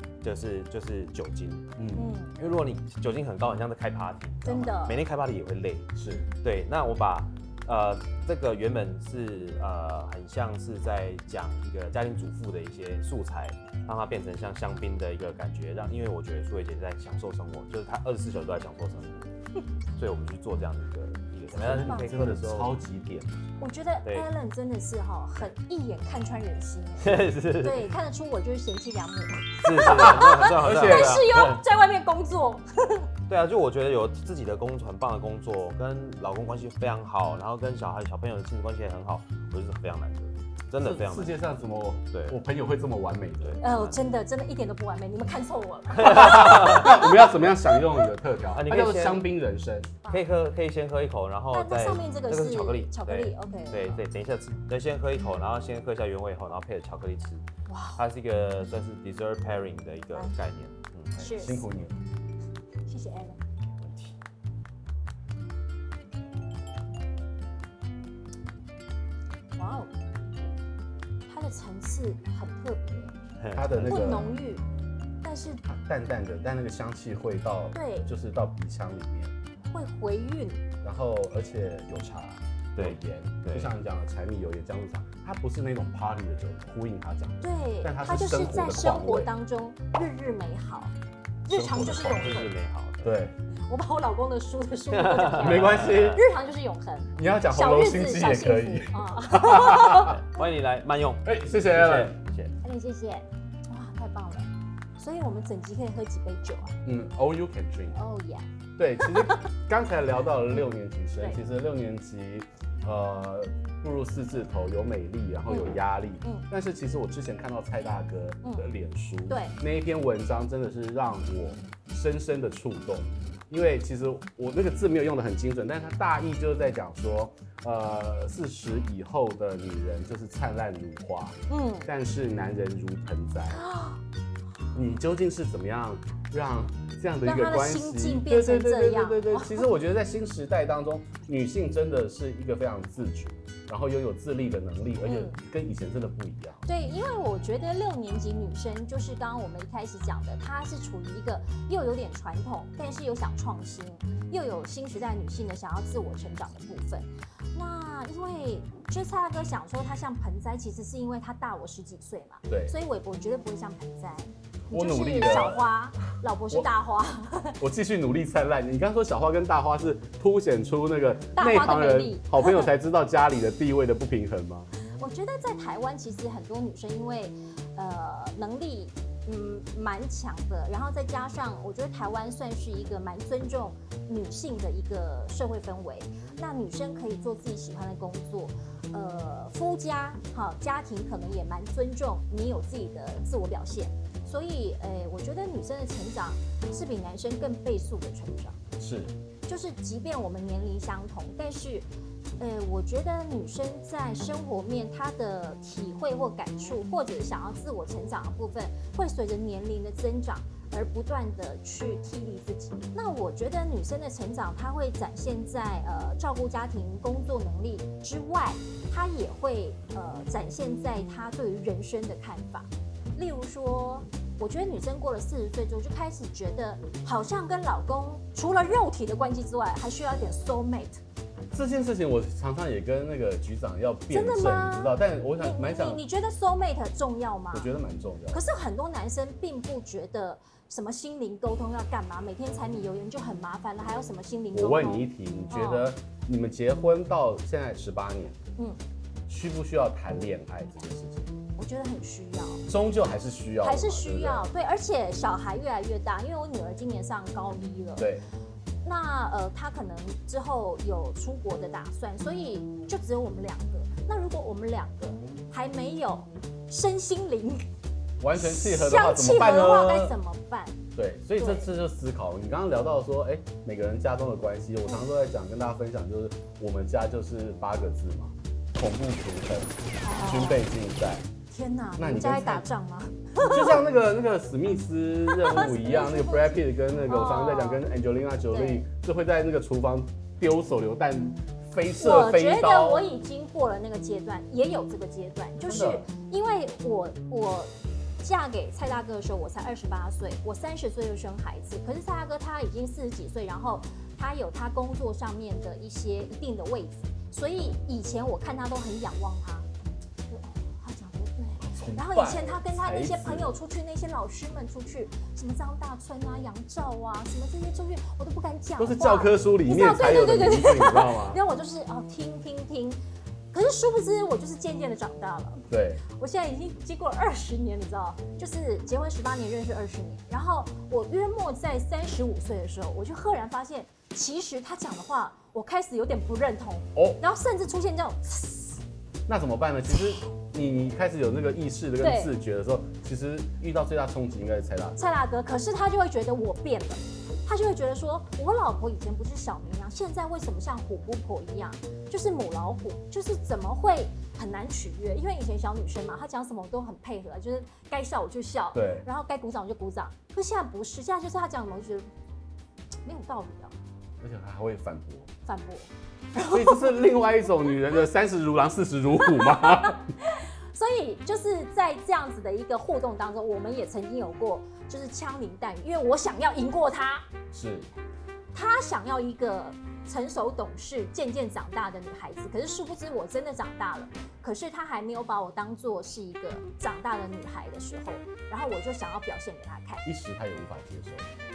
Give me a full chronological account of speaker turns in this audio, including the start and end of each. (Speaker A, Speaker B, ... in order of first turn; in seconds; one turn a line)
Speaker A: 0.2-1.7
Speaker B: 1.8-2.1
Speaker C: 1.9-2.4
Speaker A: 2.4-5.9
Speaker C: 4.4-5.0
Speaker B: 6.0-6.3
Speaker A: 6.4-19.3
Speaker A: 19.9-22.8
Speaker B: 21.5-23.4
Speaker C: 21.7-22.1
Speaker C: 23.6-33.1
Speaker A: 27.0-27.9
Speaker A: 29.6-31.6
Speaker B: 29.8-31.2
Speaker A: 33.3-41.4
Speaker B: 40.8-43.6
Speaker A: 42.1-42.4
Speaker A: 43.4-44.0
Speaker C: 43.6-47.8
Speaker A: 45.9-47.0
Speaker B: 46.0-49.9
Speaker A: 48.5-49.2
Speaker A: 50.1-57.4
Speaker C: 51.5-54.0
Speaker C: 57.7-58.0
Speaker A: 57.9-61.2
Speaker C: 61.2-61.7
Speaker B: 61.2-62.0
Speaker C: 62.9-63.4
Speaker A: 63.8-64.1
Speaker C: 69.5-69.9
Speaker C: 71.3-73.1
Speaker A: 73.4-74.2
Speaker B: 73.5-74.4
Speaker C: 73.9-74.6
Speaker C: 75.2-75.6
Speaker B: 75.6-79.3
Speaker C: 77.7-78.1
Speaker C: 79.7-80.6
Speaker B: 80.8-89.3
Speaker A: 82.8-83.7
Speaker C: 87.4-90.9
Speaker C: 91.5-92.5
Speaker B: 91.5-92.4
Speaker A: 92.0-93.3
Speaker B: 93.0-93.3
Speaker C: 93.7-100.2
Speaker A: 94.9-96.2
Speaker B: 95.3-96.2
Speaker B: 97.2-100.2
Speaker A: 100.0-102.5
Speaker B: 101.2-102.2
Speaker C: 102.6-106.8
Speaker B: 106.8-108.0
Speaker C: 107.9-108.5
Speaker B: 108.8-133.6
Speaker C: 109.0-109.5
Speaker C: 115.5-116.5
Speaker C: 119.3-119.5
Speaker C: 131.5-131.9
Speaker C: 133.6-134.0
Speaker B: 134.7-146.7
Speaker C: 137.2-139.7
Speaker C: 145.0-145.4
Speaker C: 146.6-167.6
Speaker B: 162.5-162.7
Speaker B: 164.7-165.7
Speaker B: 167.6-174.7
Speaker C: 171.3-172.7
Speaker C: 174.8-198.6
Speaker B: 198.8-199.1
Speaker C: 199.4-231.0
Speaker B: 231.5-236.0
Speaker C: 234.1-237.7
Speaker B: 237.5-238.4
Speaker C: 238.3-245.9
Speaker B: 244.5-248.4
Speaker B: 249.3-251.3
Speaker C: 251.6-252.7
Speaker B: 252.7-254.5
Speaker C: 253.6-258.1
Speaker B: 258.0-258.2
Speaker C: 258.8-267.6
Speaker B: 268.2-270.1
Speaker C: 268.3-270.8
Speaker B: 270.9-281.3
Speaker C: 271.4-271.7
Speaker C: 280.0-280.6
Speaker C: 281.5-283.8
Speaker B: 282.0-282.6
Speaker B: 283.3-293.1
Speaker C: 285.3-287.9
Speaker C: 288.5-288.9
Speaker C: 291.9-309.7
Speaker B: 295.6-296.1
Speaker C: 310.3-323.0
Speaker B: 311.6-313.5
Speaker B: 318.8-321.4
Speaker C: 323.5-338.8
Speaker B: 325.7-326.0
Speaker B: 336.9-337.2
Speaker B: 339.3-345.1
Speaker C: 342.0-342.3
Speaker C: 345.0-362.1
Speaker B: 358.7-359.1
Speaker C: 363.0-363.7
Speaker B: 364.2-365.3
Speaker C: 365.4-367.0
Speaker B: 366.5-370.1
Speaker C: 369.2-377.3
Speaker B: 377.5-377.9
Speaker C: 378.5-390.0
Speaker B: 390.0-391.2